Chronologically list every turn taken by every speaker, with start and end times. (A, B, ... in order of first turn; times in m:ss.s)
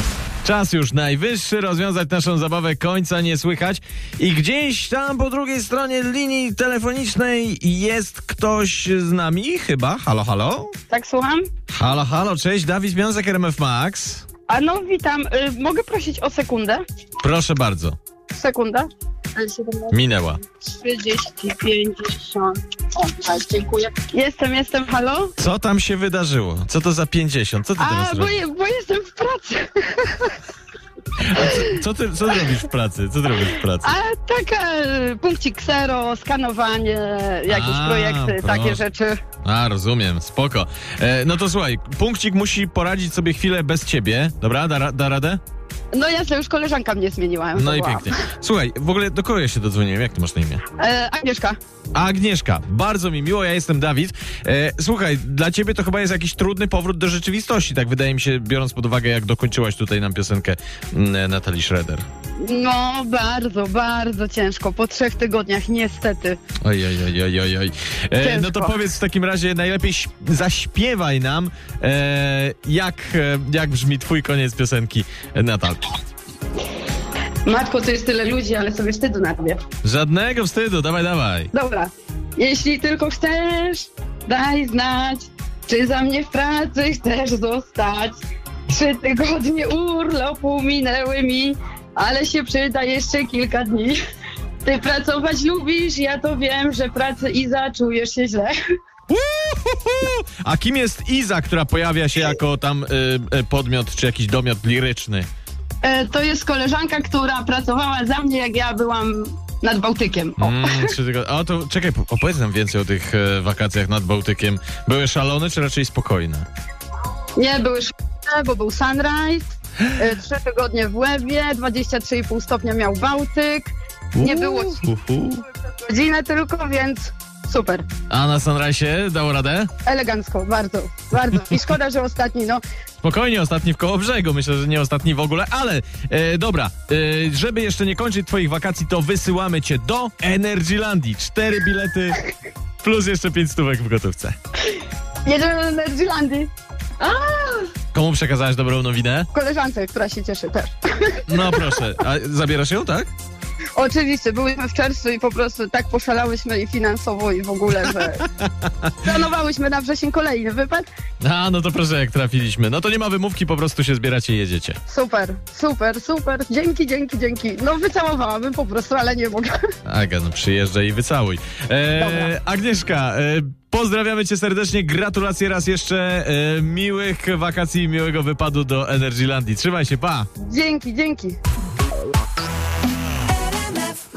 0:00.4-0:10.7 A
0:10.9-0:11.5 B
0:11.7-0:14.2 A
0:14.5-0:16.8 B
0:17.2-0:18.0 A
0:18.3-0:19.9 B
0:19.9-0:20.4 A
0:20.8-0:25.3 B
0:25.4-0:28.3 A
0:27.8-0:30.3 B
0:31.2-0:34.0 A
0:33.8-0:39.2 B
0:37.5-0:38.8 A
0:39.4-0:45.4 A
0:45.9-0:48.1 B
0:47.6-0:50.6 A
0:50.8-0:51.6 B
0:51.9-1:02.0 A
1:02.4-1:06.4 B
1:06.6-1:15.8 A
1:08.2-1:08.8 B
1:17.4-1:19.6 B
1:19.8-1:21.5 A
1:21.5-1:34.0 B
1:34.6-1:38.5 B
1:39.1-1:45.3 A
1:45.8-1:50.9 B
1:50.4-1:56.5 A
1:57.4-2:04.8 B
2:04.2-2:05.4 A
2:05.8-2:07.8 B
2:08.1-2:09.7 A
2:09.8-2:12.6 B
2:13.0-2:22.2 A
2:22.8-2:24.4 A
2:25.2-2:27.7 B
2:27.9-2:29.3 A
2:29.3-2:31.6 B
2:31.3-2:33.1 A
2:33.8-2:38.2 B
2:39.0-2:40.9 B
2:41.2-2:44.8 A
2:44.9-2:49.5 B
2:49.9-3:00.3 A
2:52.0-2:52.3 B
3:00.4-3:01.4 B